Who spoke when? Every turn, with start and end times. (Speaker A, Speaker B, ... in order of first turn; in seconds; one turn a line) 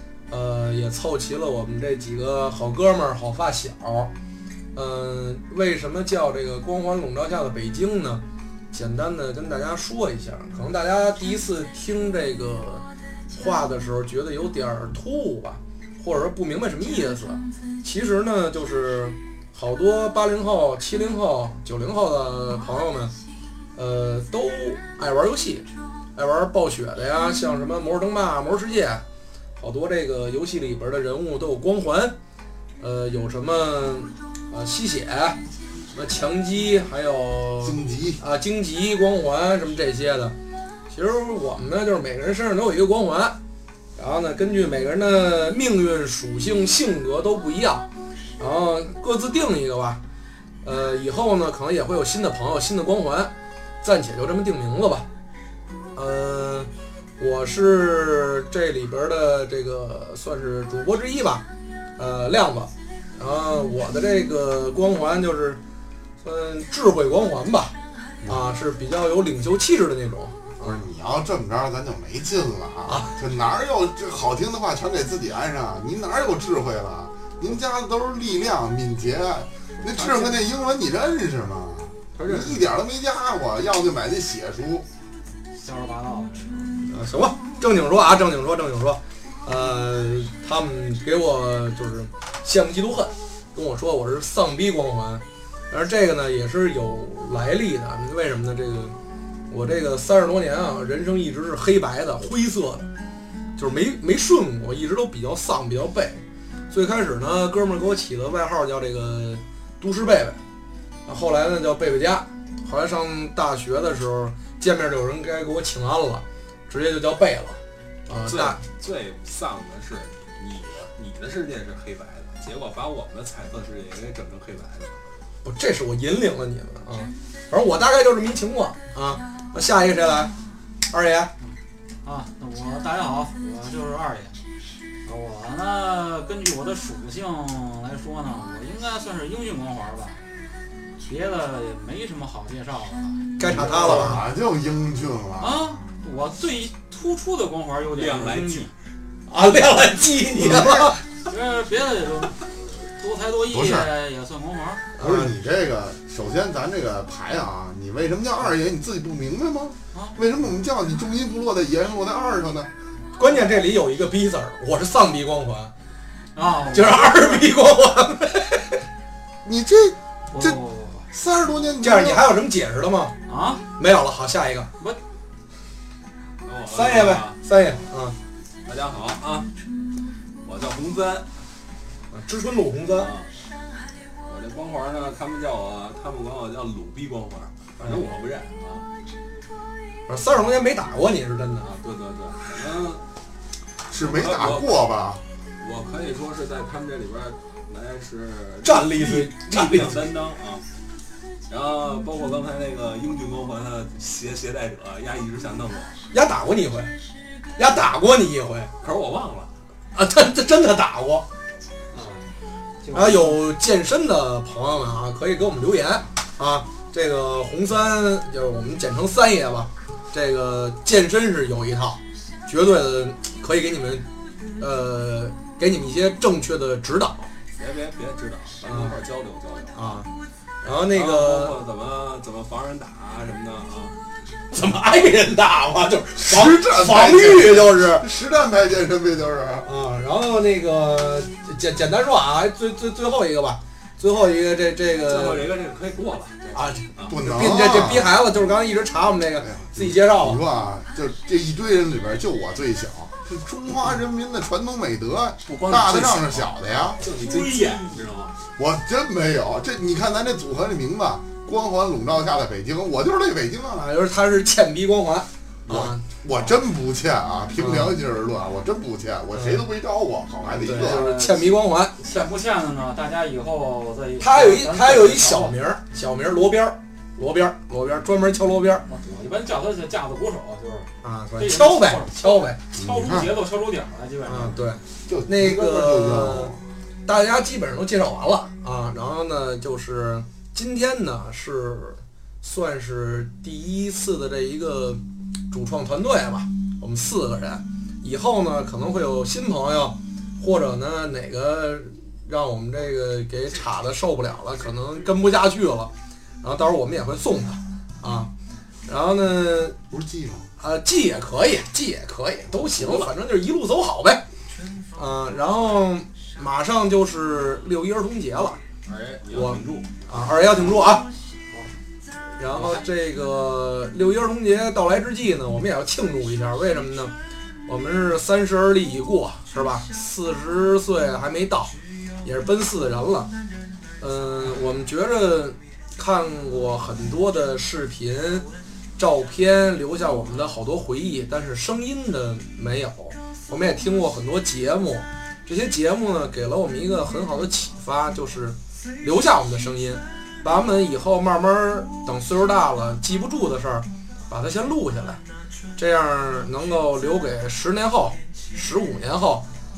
Speaker A: 0.3-4.1
Speaker A: 4.7-23.1
Speaker A: 23.8-29.0
Speaker A: 29.6-32.2
Speaker A: 32.8-35.4
Speaker A: 35.9-40.4
Speaker B: 37.6-38.2
Speaker A: 40.9-43.4
Speaker A: 44.0-47.9
Speaker A: 48.4-50.0
Speaker A: 50.6-53.3
Speaker A: 53.8-55.1
Speaker A: 56.0-61.4
Speaker A: 62.0-65.6
Speaker A: 66.2-67.7
Speaker B: 68.2-68.5
Speaker A: 68.2-70.8
Speaker B: 70.6-84.9
Speaker A: 72.9-73.1
Speaker C: 82.2-82.6
Speaker D: 85.6-86.8
Speaker A: 86.9-99.0
Speaker A: 99.5-102.9
Speaker A: 103.6-110.4
Speaker A: 111.1-118.6
Speaker C: 118.2-125.0
Speaker A: 125.4-130.3
Speaker A: 130.9-131.3
Speaker D: 131.4-134.3
Speaker D: 135.1-140.2
Speaker D: 141.1-143.2
Speaker A: 143.4-144.2
Speaker B: 143.4-145.7
Speaker D: 145.4-148.7
Speaker C: 147.9-148.7
Speaker A: 149.3-151.0
Speaker B: 150.3-151.0
Speaker D: 151.3-154.8
Speaker B: 153.5-153.9
Speaker A: 155.0-155.3
Speaker B: 155.0-162.7
Speaker A: 163.2-165.7
Speaker D: 166.3-167.4
Speaker A: 166.7-168.8
Speaker B: 169.4-170.6
Speaker D: 170.3-171.1
Speaker B: 171.1-172.4
Speaker A: 171.8-173.2
Speaker D: 173.3-173.6
Speaker A: 173.8-174.7
Speaker C: 176.4-177.4
Speaker A: 176.7-178.2
Speaker C: 178.7-179.5
Speaker C: 180.4-181.3
Speaker A: 182.1-183.1
Speaker C: 182.9-183.3
Speaker C: 184.3-188.9
Speaker A: 187.8-188.1
Speaker A: 190.1-191.7
Speaker C: 191.6-193.0
Speaker B: 193.9-195.2
Speaker C: 193.9-194.8
Speaker C: 195.6-200.6
Speaker A: 198.6-200.1
Speaker C: 201.5-205.9
Speaker A: 206.1-206.9
Speaker A: 207.6-208.7
Speaker C: 208.8-209.5
Speaker A: 209.9-211.3
Speaker D: 211.9-212.2
Speaker D: 212.8-213.4
Speaker A: 212.9-224.1
Speaker A: 224.6-227.3
Speaker C: 227.6-230.0
Speaker A: 228.7-229.0
Speaker A: 229.8-230.1
Speaker A: 230.6-231.6
Speaker C: 230.9-234.0
Speaker A: 234.5-238.1
Speaker B: 236.2-239.7
Speaker A: 239.6-245.5
Speaker C: 245.1-247.2
Speaker A: 246.5-250.4
Speaker B: 247.1-248.2
Speaker B: 249.4-257.0
Speaker C: 255.5-258.4
Speaker D: 257.1-257.9
Speaker B: 258.6-263.9
Speaker A: 263.8-266.0
Speaker B: 265.7-271.2
Speaker A: 267.6-267.9
Speaker A: 269.4-269.6
Speaker A: 270.6-272.0
Speaker D: 270.6-271.5
Speaker D: 272.0-275.6
Speaker A: 274.2-278.9
Speaker D: 278.9-284.6
Speaker A: 281.0-282.6
Speaker B: 282.7-283.3
Speaker A: 284.2-286.5
Speaker B: 285.1-286.6
Speaker A: 287.1-305.9
Speaker A: 306.4-308.3
Speaker A: 308.9-309.8
Speaker B: 309.9-310.5
Speaker A: 310.6-314.2
Speaker B: 312.6-313.1
Speaker A: 314.9-318.6
Speaker C: 318.9-319.9
Speaker A: 319.3-321.1
Speaker A: 322.4-327.1
Speaker C: 322.5-322.8
Speaker A: 327.7-333.3
Speaker A: 334.0-338.5
Speaker A: 339.0-355.2
Speaker A: 355.8-359.4